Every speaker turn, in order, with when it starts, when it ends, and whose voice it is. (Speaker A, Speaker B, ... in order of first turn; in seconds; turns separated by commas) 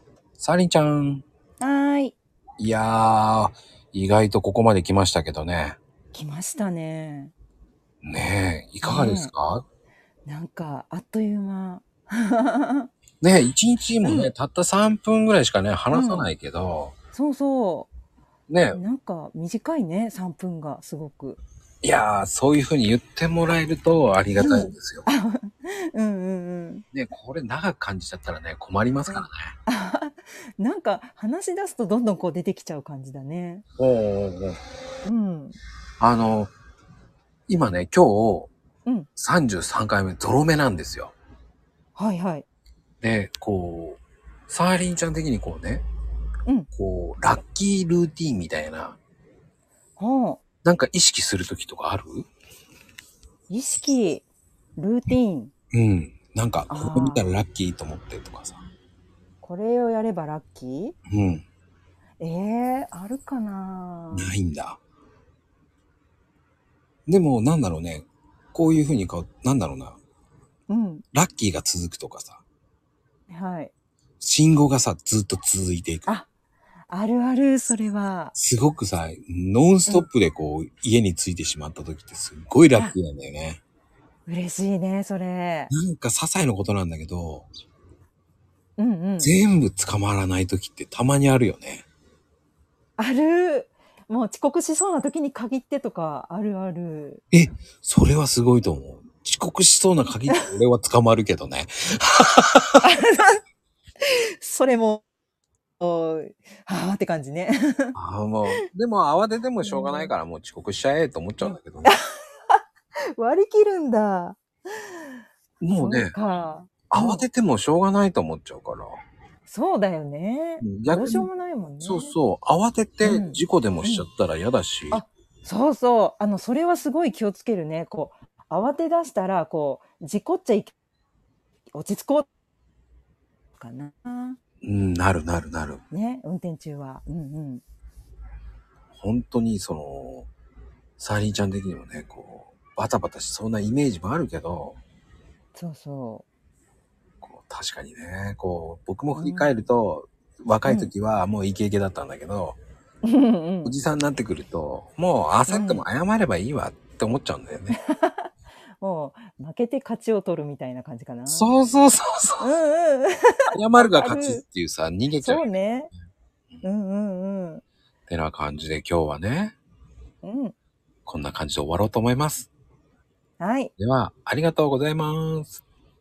Speaker A: 0.4-1.2, Speaker B: 1.6-2.1, Speaker A: 2.6-5.8, Speaker B: 6.1-7.3, Speaker A: 8.0-9.6, Speaker B: 8.8-9.3, Speaker B: 10.2-12.9, Speaker A: 13.2-16.9, Speaker B: 14.0-14.3, Speaker B: 15.9-16.3, Speaker B: 17.1-17.9, Speaker A: 18.5-18.8, Speaker B: 18.7-21.4, Speaker A: 21.8-25.1, Speaker B: 24.4-26.8, Speaker A: 26.9-29.5, Speaker B: 29.1-33.6, Speaker A: 33.8-34.6, Speaker B: 35.0-35.6, Speaker A: 36.0-36.5, Speaker A: 37.5-38.5, Speaker A: 39.1-41.1, Speaker B: 42.0-42.5, Speaker A: 43.0-45.8, Speaker A: 46.7-49.0, Speaker B: 50.0-50.4, Speaker A: 50.6-52.3, Speaker B: 53.5-54.2, Speaker B: 54.8-55.5, Speaker A: 55.7-58.6, Speaker B: 56.7-57.3, Speaker B: 59.4-60.9, Speaker A: 61.1-61.4, Speaker B: 62.2-64.3, Speaker A: 64.1-64.8, Speaker A: 67.1-70.0, Speaker B: 70.7-71.0, Speaker A: 71.1-72.4, Speaker B: 73.3-73.7, Speaker A: 74.2-76.1, Speaker B: 76.9-78.3, Speaker A: 78.3-83.6, Speaker B: 84.3-85.7, Speaker A: 85.7-87.5, Speaker B: 88.8-89.3, Speaker A: 89.2-91.8, Speaker B: 93.0-97.2, Speaker A: 97.3-102.8, Speaker B: 102.8-103.4, Speaker B: 104.0-105.0, Speaker B: 105.8-107.9, Speaker A: 107.9-111.9, Speaker B: 109.6-110.1, Speaker B: 111.4-112.0, Speaker B: 113.1-114.4, Speaker A: 115.6-116.2, Speaker B: 115.7-117.2, Speaker A: 116.9-119.0, Speaker B: 119.5-122.1, Speaker A: 120.6-121.3, Speaker A: 121.8-125.0, Speaker B: 123.0-124.0, Speaker B: 124.9-130.7, Speaker B: 131.7-132.3, Speaker B: 133.6-134.4, Speaker A: 134.6-135.8, Speaker B: 135.9-137.6, Speaker A: 138.9-140.3, Speaker A: 141.0-144.8, Speaker B: 145.5-146.2, Speaker A: 147.2-152.6, Speaker B: 149.1-149.5, Speaker B: 150.6-150.9, Speaker B: 153.0-153.7, Speaker A: 153.6-157.8, Speaker B: 155.5-155.8, Speaker B: 157.7-161.5, Speaker A: 161.3-162.5, Speaker B: 162.4-164.4, Speaker A: 163.5-165.5, Speaker B: 165.2-165.9, Speaker B: 166.6-167.6, Speaker A: 168.1-169.5, Speaker B: 170.2-170.5, Speaker A: 171.1-172.5, Speaker B: 173.4-173.7, Speaker A: 173.8-175.6